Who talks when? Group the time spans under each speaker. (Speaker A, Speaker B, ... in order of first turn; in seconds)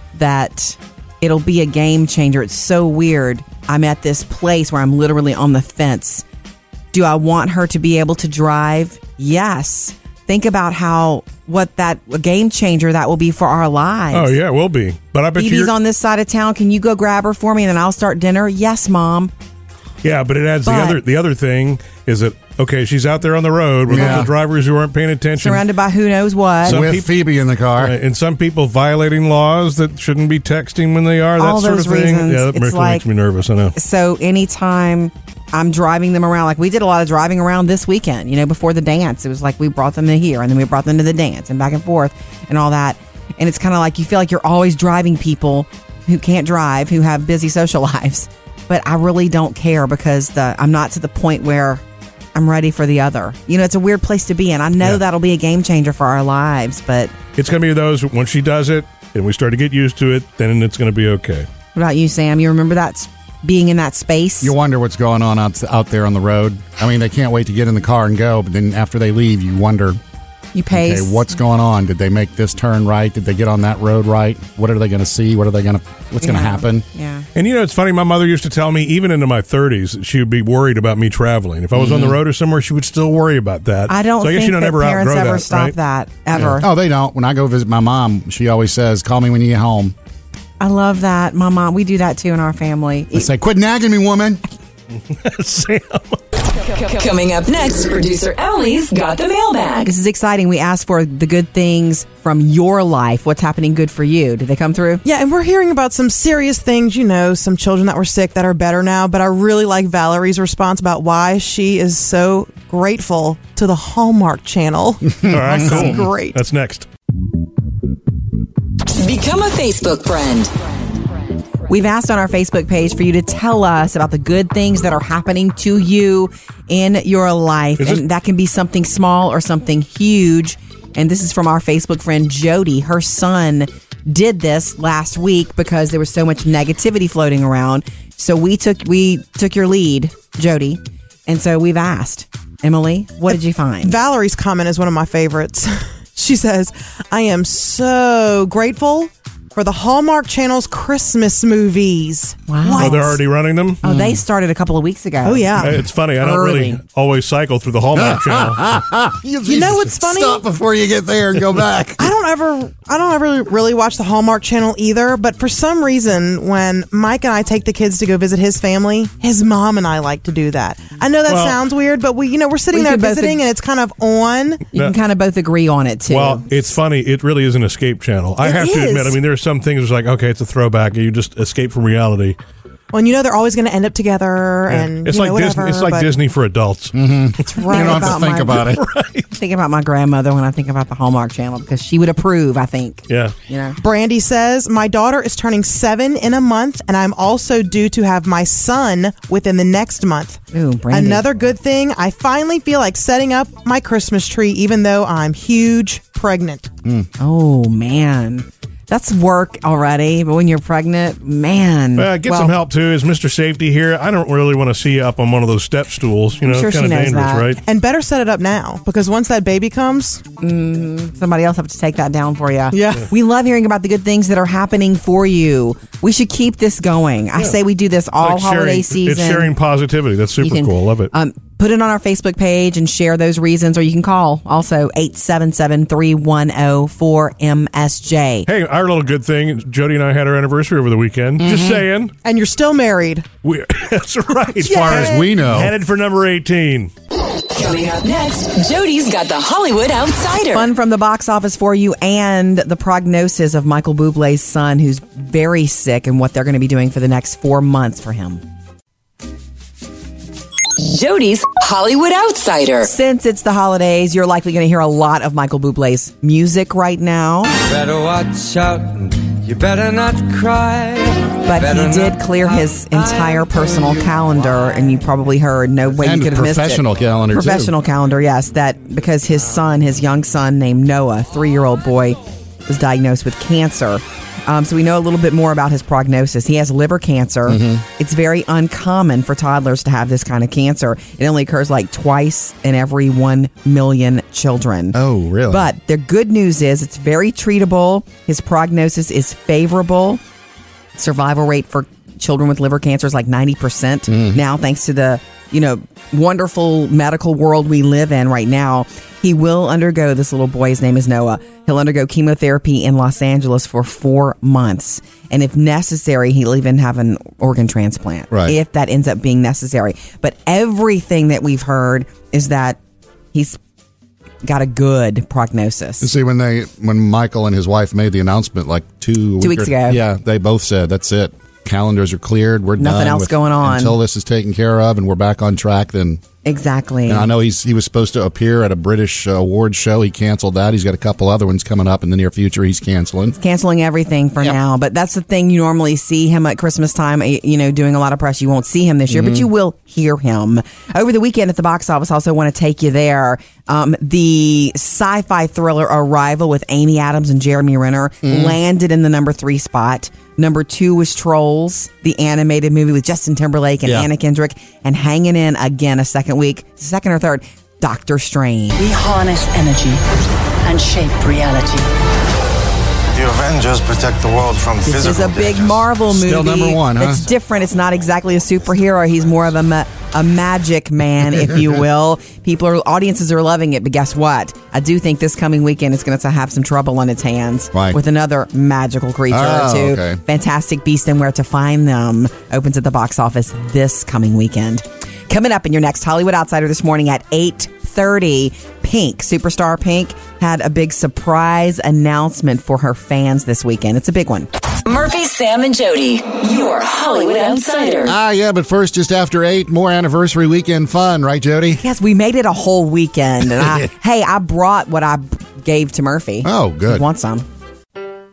Speaker A: 0.1-6.2, 6.9-14.3, 15.4-19.3, 20.6-21.0, 23.9-24.3, 25.4-26.9, 31.4-33.0, 33.8-51.8, 52.4-57.1, 61.8-64.5, 70.5-71.3, 76.2-77.3, 83.9-86.7, 90.6-93.3, 99.8-105.0, 121.7-144.0, 152.5-153.1, 153.8-155.7, 156.4-156.6, 172.7-173.4, 174.7-176.4, 178.4-179.2, 187.5-188.8, 189.4-193.8, 200.5-201.2, 207.2-212.5, 216.4-217.5, 220.4-229.6, 230.4-238.5, 250.5-258.4, 262.8-267.5, 271.4-276.8, 277.3-295.0, 295.5-300.2, 301.0-322.8, 323.3-323.6, 324.4-326.1, 329.4-330.0, 332.8-334.0, 336.4-337.3, 343.4-368.8, 374.8-404.5, 411.8-417.4
Speaker B: 14.1-15.7, 20.0-25.6, 26.6-27.1, 27.8-33.8, 57.4-61.5, 77.3-85.8, 95.0-96.2, 115.3-116.9, 127.8-128.0, 152.8-153.8, 155.6-158.6, 171.3-171.6, 176.1-182.4, 184.7-189.4, 193.1-193.3, 212.0-217.6, 228.2-231.1, 238.5-242.1, 243.4-246.9
Speaker C: 23.9-24.3, 26.6-27.9, 64.4-70.0, 70.7-76.8, 81.8-82.2, 86.5-90.0, 93.1-94.4, 153.8-154.2, 157.9-162.0, 186.9-188.8, 241.4-241.8, 244.6-245.7, 275.9-277.7, 287.5-287.8, 294.9-295.7, 304.1-304.4, 318.3-318.6, 326.0-336.2, 337.1-343.4, 349.1-349.5, 358.2-358.6, 363.8-364.1, 376.1-377.3, 387.7-388.0, 389.3-390.2, 408.1-411.8, 416.4-417.1
Speaker D: 96.6-99.9, 119.0-120.5, 247.5-250.7, 260.8-262.9, 404.9-408.2
Speaker E: 105.0-116.4, 143.8-153.2, 155.2-155.8, 156.4-156.7, 159.5-160.4, 162.0-174.7, 182.9-186.1, 193.8-206.7, 217.6-220.2, 222.7-223.1, 242.2-243.3, 244.6-245.3
Speaker F: 267.6-274.8
Speaker G: 368.8-370.0, 370.6-371.9
Speaker H: 373.2-375.8